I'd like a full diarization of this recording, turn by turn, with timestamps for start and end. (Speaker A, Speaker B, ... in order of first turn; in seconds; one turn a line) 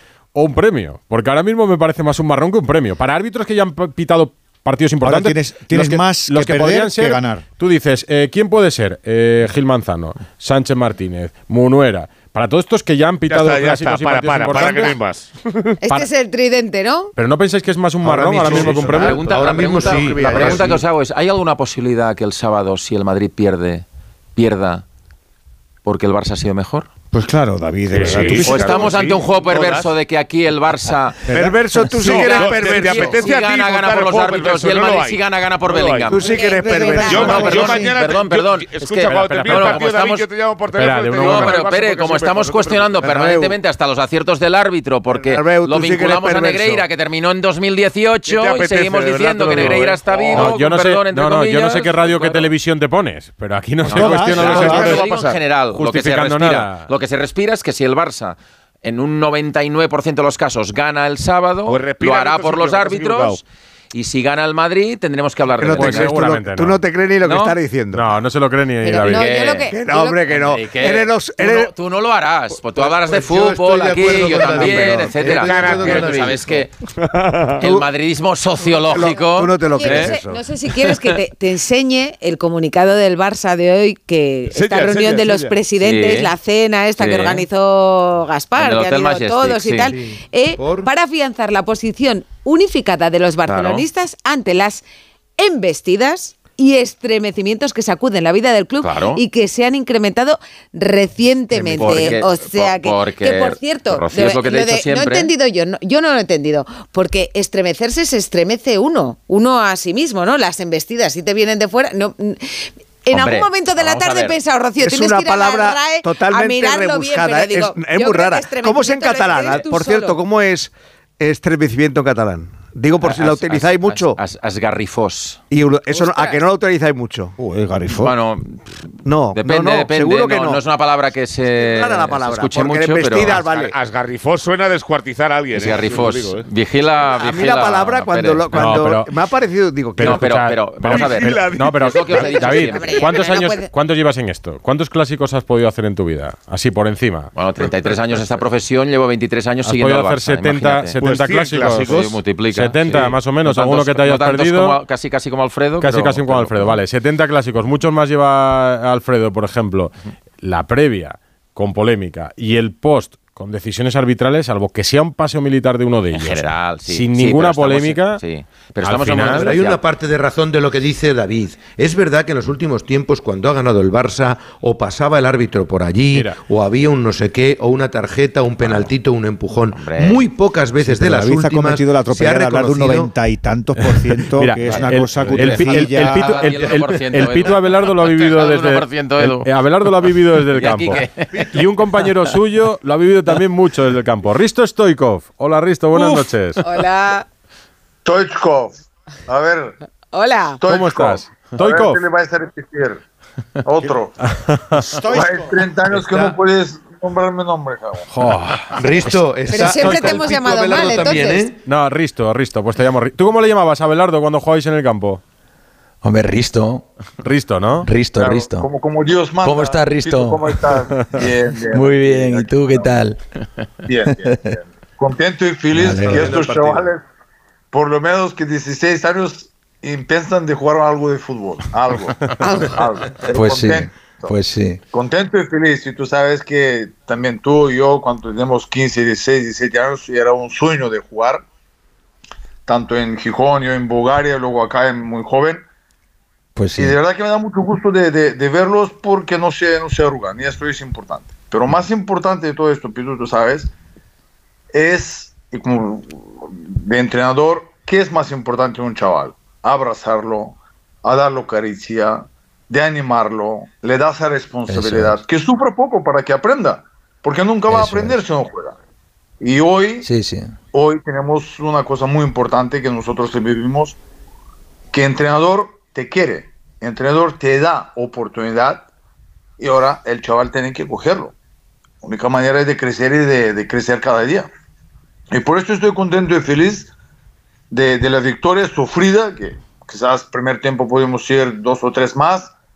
Speaker A: 0.3-15.0
Speaker B: 5.0-7.4
Speaker C: 13.3-15.7
Speaker D: 15.8-17.1
Speaker A: 17.2-20.1
Speaker E: 18.0-20.8
Speaker F: 18.4-23.9
Speaker F: 24.4-24.8
Speaker F: 25.9-26.9
Speaker B: 27.1-29.2
Speaker A: 27.9-28.5
Speaker F: 28.1-31.2
Speaker C: 29.4-29.8
Speaker B: 31.3-32.7
Speaker G: 31.3-33.2
Speaker C: 32.0-36.1
Speaker F: 32.7-36.4
Speaker D: 32.9-33.2
Speaker G: 36.0-37.7
Speaker D: 36.2-37.2
Speaker B: 36.6-38.0
Speaker F: 37.1-40.3
Speaker C: 37.1-42.9
Speaker A: 39.1-39.9
Speaker A: 40.7-41.6
Speaker F: 41.1-52.5
Speaker G: 43.0-43.5
Speaker G: 45.1-46.9
Speaker C: 48.3-49.9
Speaker A: 49.3-56.9
Speaker G: 50.2-50.5
Speaker F: 53.9-66.2
Speaker B: 53.9-55.0
Speaker C: 61.7-63.4
Speaker G: 65.6-68.0
Speaker A: 65.7-66.8
Speaker F: 67.2-67.6
Speaker A: 67.9-69.3
Speaker D: 68.8-70.2
Speaker F: 69.1-69.8
Speaker G: 69.7-71.7
Speaker F: 70.3-76.7
Speaker E: 73.0-76.4
Speaker G: 74.2-76.3
Speaker F: 77.6-80.2
Speaker G: 77.6-77.8
Speaker G: 78.8-80.4
Speaker D: 79.8-94.8
Speaker C: 84.6-85.1
Speaker G: 84.6-85.3
Speaker F: 85.8-86.3
Speaker F: 87.0-87.5
Speaker F: 88.6-90.0
Speaker E: 90.6-90.9
Speaker F: 93.5-93.9
Speaker D: 95.4-120.2
Speaker F: 98.8-99.2
Speaker F: 101.6-105.3
Speaker F: 113.1-114.4
Speaker G: 114.8-124.2
Speaker F: 123.0-125.4
Speaker G: 125.5-127.3
Speaker D: 125.9-126.4
Speaker B: 127.4-128.1
Speaker F: 127.9-133.7
Speaker G: 129.0-130.6
Speaker G: 131.6-133.7
Speaker C: 133.7-136.4
Speaker F: 135.5-138.7
Speaker G: 137.2-140.2
Speaker A: 138.5-139.1
Speaker A: 140.0-147.3
Speaker F: 140.0-143.3
Speaker C: 140.9-141.7
Speaker D: 142.1-143.7
Speaker F: 147.3-156.8
Speaker A: 149.6-154.8
Speaker C: 151.0-152.1
Speaker A: 155.8-168.2
Speaker F: 166.1-169.8
Speaker A: 168.8-169.5
Speaker E: 169.4-183.1
Speaker A: 176.1-176.4
Speaker F: 178.6-178.9
Speaker F: 179.8-180.3
Speaker B: 180.8-186.6
Speaker A: 183.8-196.6
Speaker F: 184.7-189.5
Speaker F: 190.5-191.5
Speaker D: 196.6-197.2
Speaker H: 198.0-199.8
Speaker D: 200.1-200.6
Speaker H: 200.6-203.0
Speaker A: 200.7-202.0
Speaker H: 203.7-204.2
Speaker A: 204.3-205.0
Speaker B: 204.8-205.5
Speaker H: 205.1-208.1
Speaker E: 205.9-206.3
Speaker A: 208.2-210.3
Speaker E: 208.8-211.6
Speaker D: 209.5-211.4
Speaker A: 211.7-215.2
Speaker I: 216.0-216.9
Speaker A: 217.2-217.9
Speaker I: 217.8-218.7
Speaker H: 218.2-223.0
Speaker I: 219.4-220.7
Speaker I: 221.7-223.2
Speaker H: 223.9-227.0
Speaker I: 224.1-224.6
Speaker I: 225.7-226.3
Speaker E: 226.1-226.8
Speaker H: 227.7-232.2
Speaker D: 232.4-232.8
Speaker H: 232.7-234.3
Speaker I: 233.3-234.8
Speaker H: 234.9-241.4
Speaker H: 242.7-245.6
Speaker I: 246.6-247.0
Speaker H: 246.8-253.7
Speaker H: 254.7-268.8
Speaker I: 264.7-265.2
Speaker I: 267.7-268.2
Speaker H: 269.4-270.1
Speaker I: 270.0-270.6
Speaker H: 270.7-274.0
Speaker H: 274.9-278.9
Speaker H: 279.6-281.3
Speaker H: 282.0-284.5
Speaker H: 285.3-286.9
Speaker H: 287.7-292.5